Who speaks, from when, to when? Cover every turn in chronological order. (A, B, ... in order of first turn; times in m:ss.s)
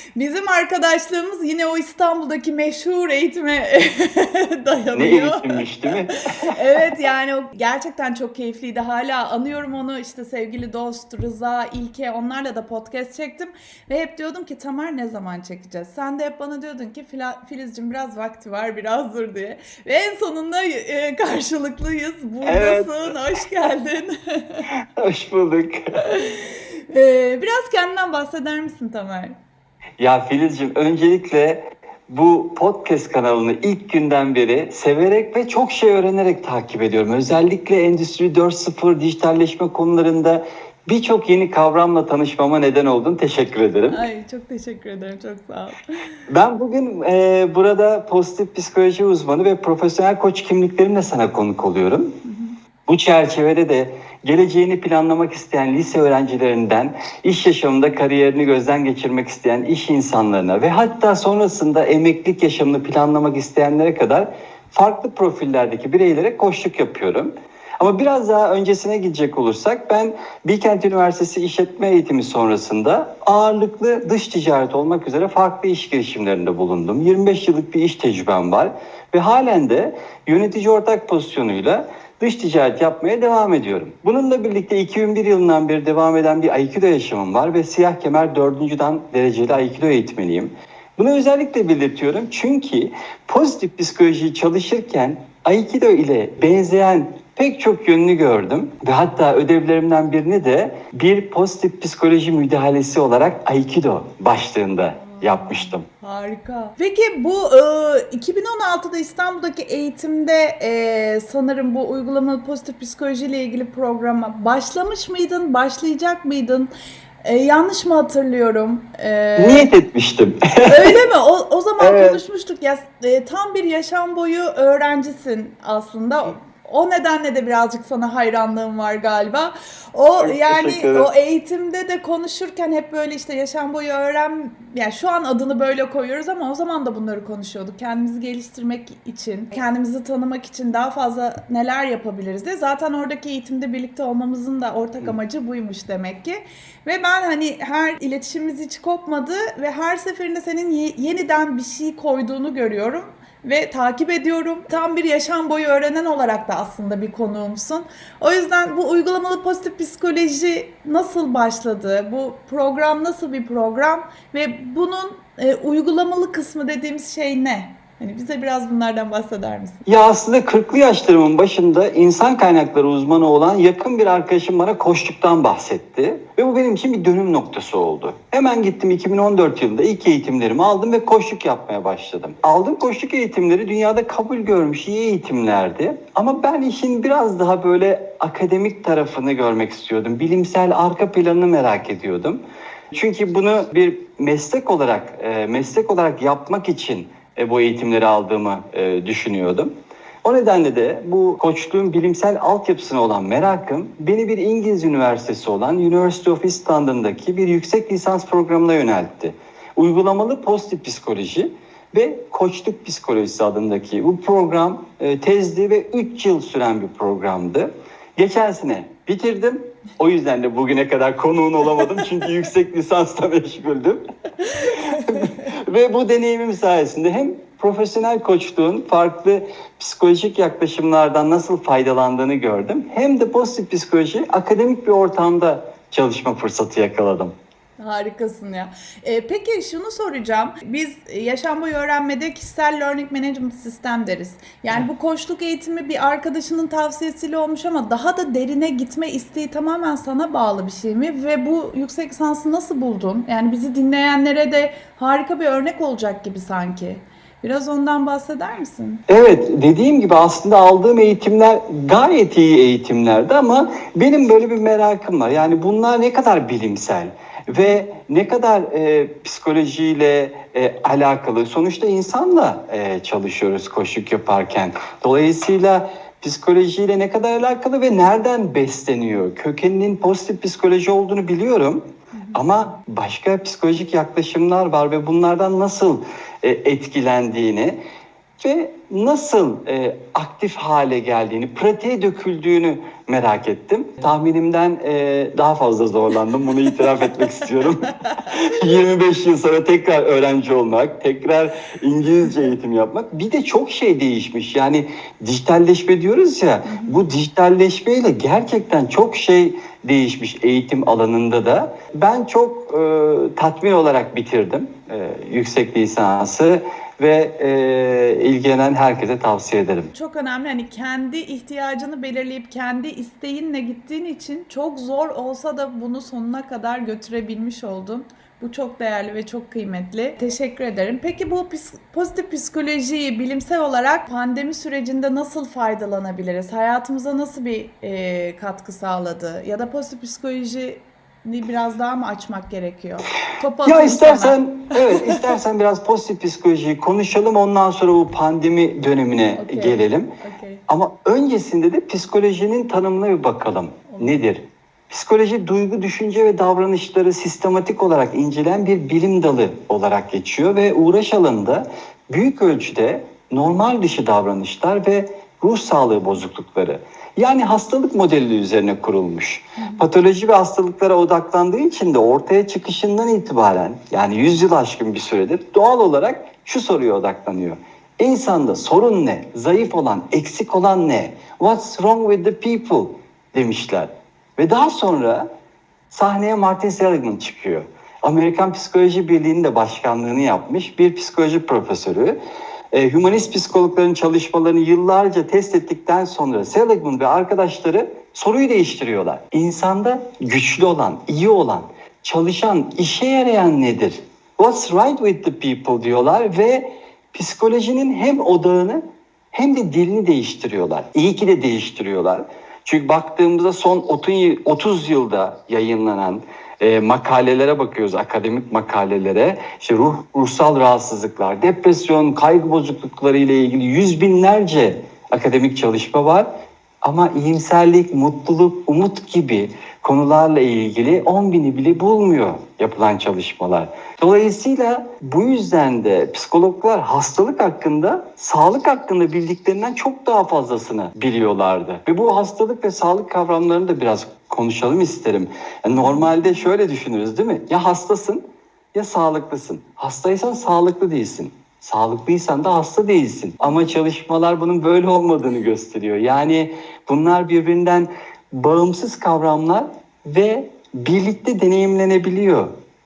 0:00.2-0:05.9 A
0:04.9-0:06.6 B
0:06.5-0:24.7 A
0:22.4-0:23.1 B
0:25.0-0:25.8 B
0:26.0-0:29.4 A
0:30.0-0:44.0 B
0:43.9-0:46.2 A
0:46.3-0:52.2 B
0:52.2-0:52.6 A
0:52.9-1:45.8 B
1:44.9-1:56.7 A
1:57.2-1:59.7 A
1:59.4-2:00.9 B
2:00.6-2:49.8 A
2:01.8-2:02.2 B
2:10.2-2:11.1 B
2:49.9-3:12.4 B
3:12.9-3:19.7 B
3:20.2-3:44.0 B
3:44.6-3:45.4 A
3:44.6-3:57.3 B
3:57.8-4:19.0 A
4:19.1-4:47.8 B
4:27.5-4:27.8 A
4:42.1-4:42.5 A
4:48.4-5:19.9 B
4:57.7-4:58.4 A
5:06.7-5:07.0 A
5:19.9-5:45.3 A
5:43.6-5:50.1 B
5:49.4-5:50.6 A
5:50.7-6:25.3 B
5:53.9-5:54.2 A
6:09.6-6:09.8 A
6:25.9-6:32.2 B
6:32.7-7:06.3 B
7:06.8-7:42.5 B
7:25.7-7:26.5 A